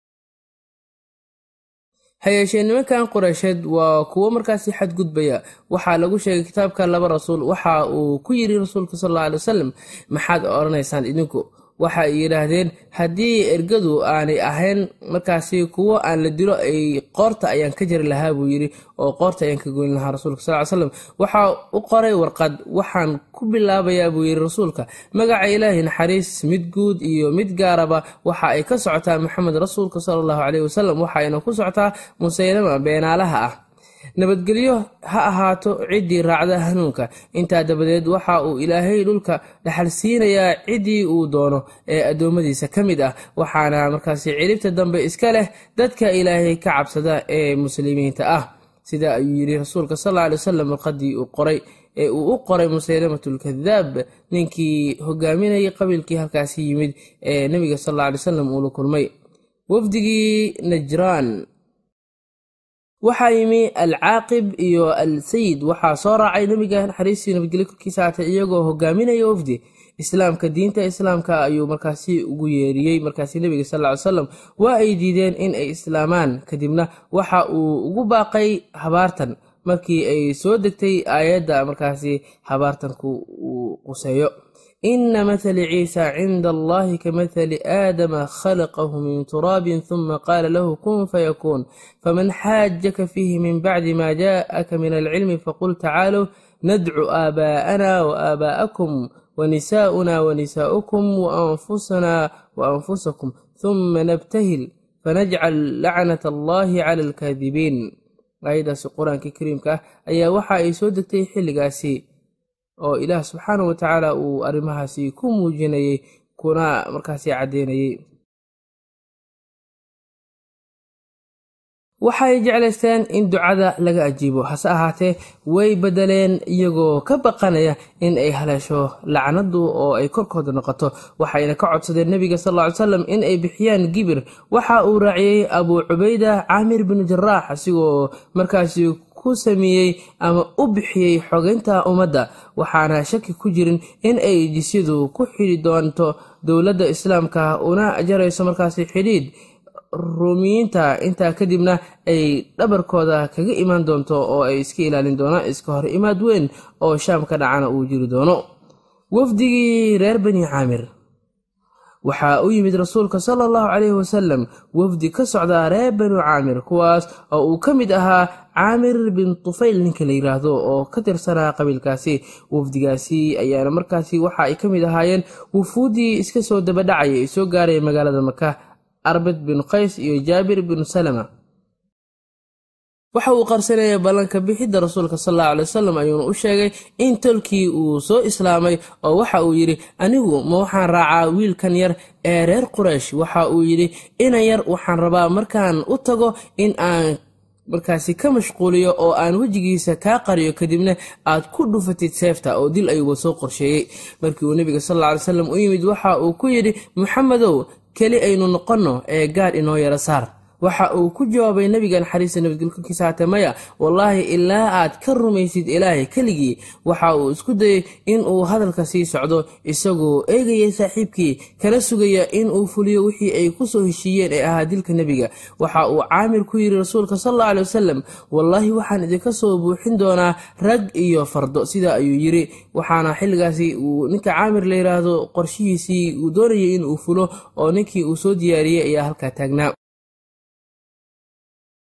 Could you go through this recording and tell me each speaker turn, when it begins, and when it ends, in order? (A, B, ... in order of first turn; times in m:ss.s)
0:02.2-0:33.5 A
0:34.2-0:59.1 A
0:59.7-1:01.3 A
1:03.0-1:24.3 A
1:24.9-1:47.8 A
1:48.4-1:52.0 A
1:52.8-1:58.0 A
2:02.0-2:29.3 A
2:29.9-2:38.4 A
2:39.1-2:40.8 A
2:42.0-2:58.5 A
2:59.1-3:01.3 A
3:03.1-3:17.2 A
3:17.7-3:59.7 A